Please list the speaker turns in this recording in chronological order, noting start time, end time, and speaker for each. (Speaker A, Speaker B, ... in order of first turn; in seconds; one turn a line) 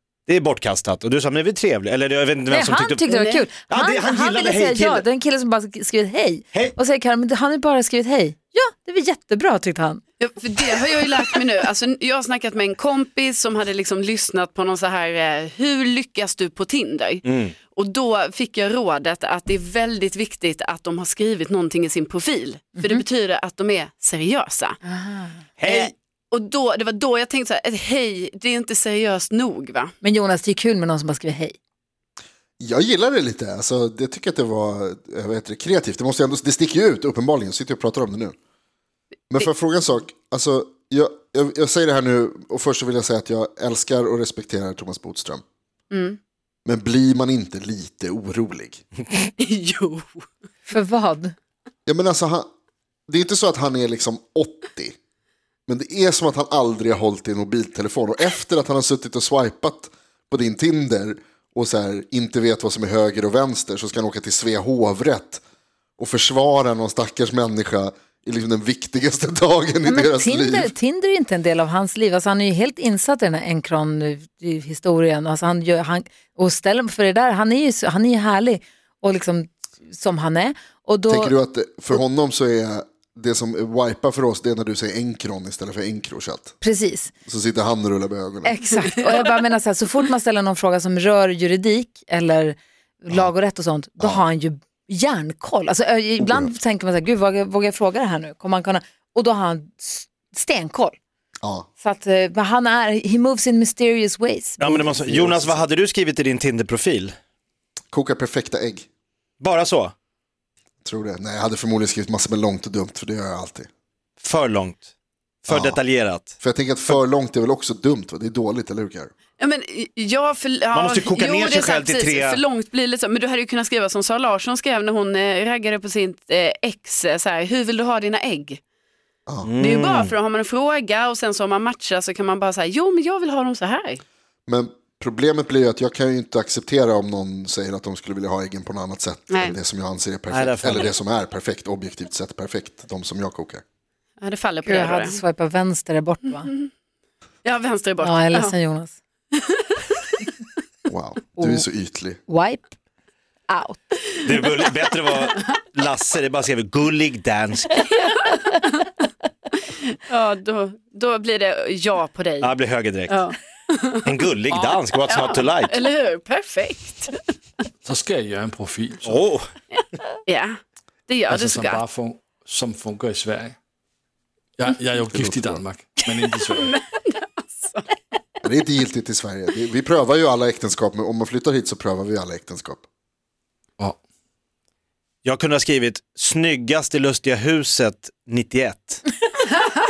Speaker A: 0.3-3.1
Speaker B: 2.5-10.0
Speaker C: 3.1-3.5
Speaker A: 3.6-5.0
Speaker C: 10.2-24.8
Speaker A: 17.2-17.6
Speaker B: 24.8-25.4
Speaker A: 25.6-25.9
Speaker C: 25.6-29.9
Speaker B: 30.0-31.6
Speaker D: 32.6-38.4
Speaker D: 39.3-45.4
Speaker C: 45.9-46.2
Speaker D: 46.7-48.8
Speaker C: 49.4-50.2
Speaker B: 50.7-51.3
Speaker D: 51.9-52.5
Speaker D: 53.1-55.0
Speaker D: 55.7-65.4
Speaker D: 66.0-70.7
Speaker B: 69.8-81.4
Speaker D: 81.1-86.6
Speaker B: 86.6-87.1
Speaker D: 87.3-88.5
Speaker B: 88.4-101.0
Speaker D: 96.2-96.5
Speaker B: 101.8-104.9
Speaker A: 104.6-107.1
Speaker D: 104.9-105.6
Speaker D: 107.9-108.8
Speaker A: 109.4-109.9
Speaker D: 110.8-113.7
Speaker A: 114.2-114.9
Speaker A: 115.4-116.3
Speaker D: 115.5-115.8
Speaker D: 116.4-119.1
Speaker C: 119.4-128.6
Speaker A: 120.7-122.4
Speaker A: 129.4-130.1
Speaker C: 129.6-134.0
Speaker D: 134.5-143.6
Speaker C: 139.3-139.6
Speaker A: 140.3-140.9
Speaker C: 144.2-145.2
Speaker B: 144.6-146.5
Speaker C: 147.4-148.5
Speaker B: 148.0-149.0
Speaker C: 149.3-150.2
Speaker D: 150.9-152.2
Speaker B: 151.4-151.7
Speaker B: 152.3-152.8
Speaker B: 153.5-154.0
Speaker A: 154.2-157.8
Speaker C: 157.8-158.9
Speaker C: 159.9-162.5
Speaker A: 162.4-163.2
Speaker C: 163.1-164.1
Speaker A: 164.1-165.8
Speaker C: 165.1-167.2
Speaker E: 167.8-169.2
Speaker A: 169.0-169.5
Speaker C: 170.3-170.6
Speaker C: 171.1-171.8
Speaker E: 171.3-173.6
Speaker E: 174.6-176.8
Speaker D: 175.1-175.7
Speaker C: 176.1-177.8
Speaker D: 178.4-182.8
Speaker A: 185.2-189.0